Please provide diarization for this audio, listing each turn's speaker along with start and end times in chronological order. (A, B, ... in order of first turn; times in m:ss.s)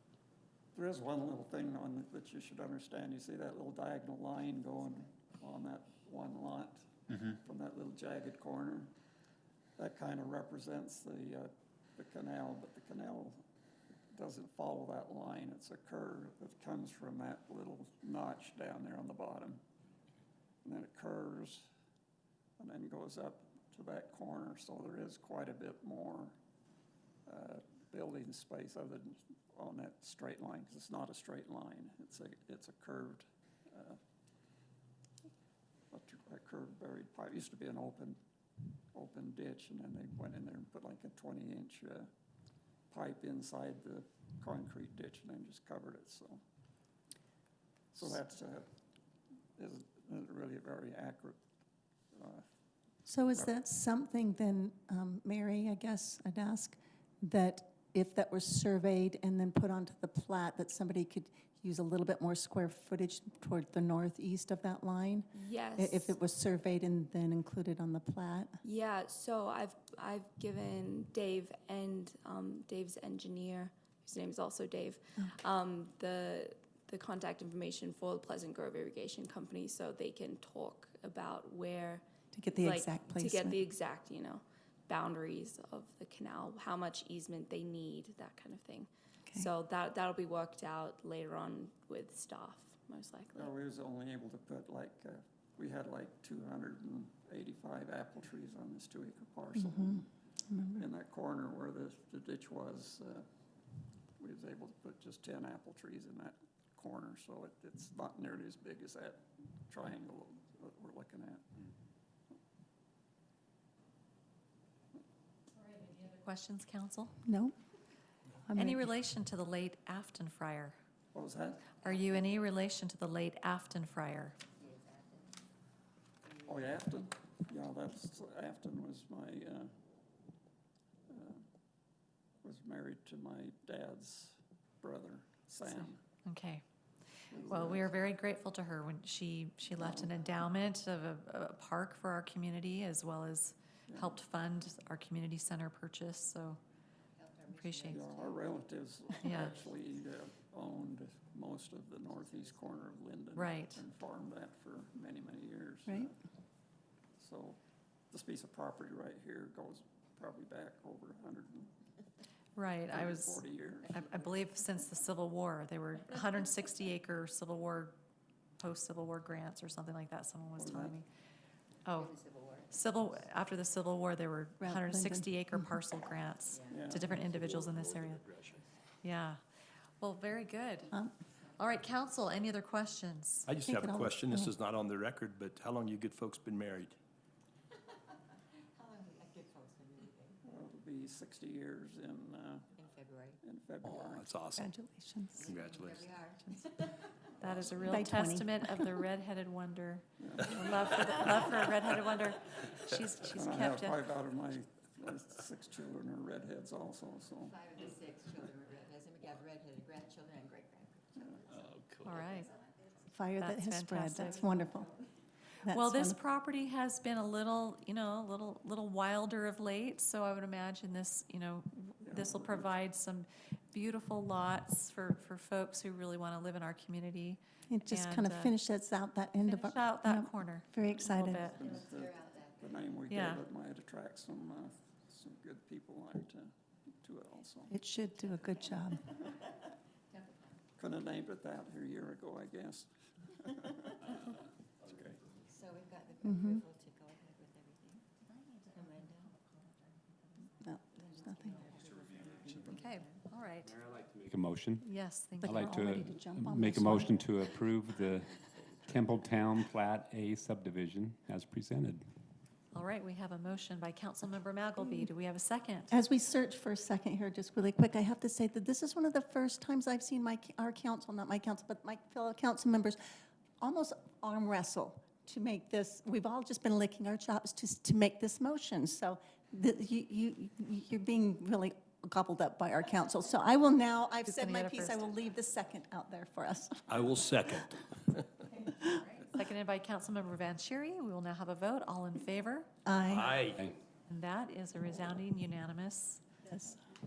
0:00.7-0:08.9 A
0:09.8-0:13.4 A
0:14.1-0:19.6 A
0:20.6-0:21.6 A
0:22.6-0:26.4 A
0:27.2-0:34.0 A
0:35.9-0:38.2 A
0:38.9-0:42.1 A
0:42.9-0:46.4 A
0:47.9-0:48.7 A
0:49.6-0:51.4 A
0:52.1-0:52.4 A
0:53.0-1:08.6 B
1:05.3-1:06.0 C
1:08.6-1:22.0 C
1:22.3-1:23.6 B
1:22.6-1:33.5 C
1:33.3-1:40.0 A
1:39.5-1:40.9 B
1:40.8-1:43.2 A
1:44.2-1:51.5 A
1:55.5-1:57.2 D
1:57.2-1:57.5 B
1:58.5-1:58.9 B
1:58.5-2:00.8 D
2:01.1-2:01.8 A
2:01.8-2:04.4 D
2:04.6-2:05.3 E
2:06.4-2:09.7 A
2:11.1-2:11.4 A
2:12.4-2:16.0 A
2:15.6-2:16.6 D
2:17.3-2:18.0 A
2:17.5-2:26.6 D
2:19.8-2:20.1 A
2:23.9-2:24.2 A
2:27.2-2:28.3 E
2:27.5-2:28.0 D
2:27.9-2:36.2 A
2:29.2-2:29.6 D
2:32.2-2:32.9 E
2:33.3-2:33.8 D
2:37.2-2:37.6 A
2:38.1-2:41.7 A
2:42.6-2:48.0 D
2:42.9-2:44.0 A
2:48.6-2:51.0 D
2:50.6-2:51.0 A
2:51.8-2:52.2 D
2:52.0-2:52.7 E
2:52.7-2:58.2 D
2:54.6-2:55.7 B
2:56.5-2:56.8 E
2:56.7-2:57.1 A
2:57.3-2:58.6 F
2:59.0-2:59.4 D
3:00.0-3:00.9 D
3:01.6-3:03.5 D
3:03.5-3:07.0 F
3:03.6-3:04.5 B
3:08.7-3:10.3 E
3:10.4-3:12.8 A
3:12.8-3:13.4 E
3:13.4-3:14.4 A
3:13.8-3:14.6 F
3:14.5-3:15.5 B
3:15.4-3:16.9 E
3:15.5-3:16.1 F
3:17.4-3:24.0 D
3:17.8-3:19.0 B
3:20.2-3:20.6 A
3:23.3-3:27.7 A
3:27.5-3:33.0 E
3:31.2-3:31.5 A
3:31.5-3:32.2 F
3:32.0-3:32.5 D
3:33.1-3:34.9 B
3:33.4-3:34.5 D
3:34.3-3:35.0 E
3:35.6-3:36.2 B
3:35.7-3:48.5 D
3:42.0-3:42.7 A
3:47.7-3:51.5 B
3:49.4-3:51.5 D
3:51.4-3:56.5 A
3:51.5-3:52.9 E
3:51.6-3:51.9 C
3:53.1-3:53.4 D
3:57.0-3:57.7 A
3:57.7-3:59.1 B
4:00.1-4:00.6 E
4:00.8-4:04.2 A
4:05.5-4:13.2 E
4:06.2-4:06.6 B
4:10.6-4:11.6 B
4:12.2-4:12.7 C
4:12.7-4:13.7 D
4:13.6-4:14.8 G
4:14.8-4:16.0 D
4:15.4-4:17.3 B
4:15.4-4:22.0 G
4:22.7-4:25.9 D
4:24.8-4:25.0 B
4:25.9-4:33.0 B
4:33.6-4:47.2 B
4:44.2-4:45.1 D
4:46.9-4:47.8 F
4:49.2-4:52.7 D
4:52.8-4:53.5 B
4:53.1-4:53.6 F
4:54.1-4:56.2 D
4:56.4-4:56.8 B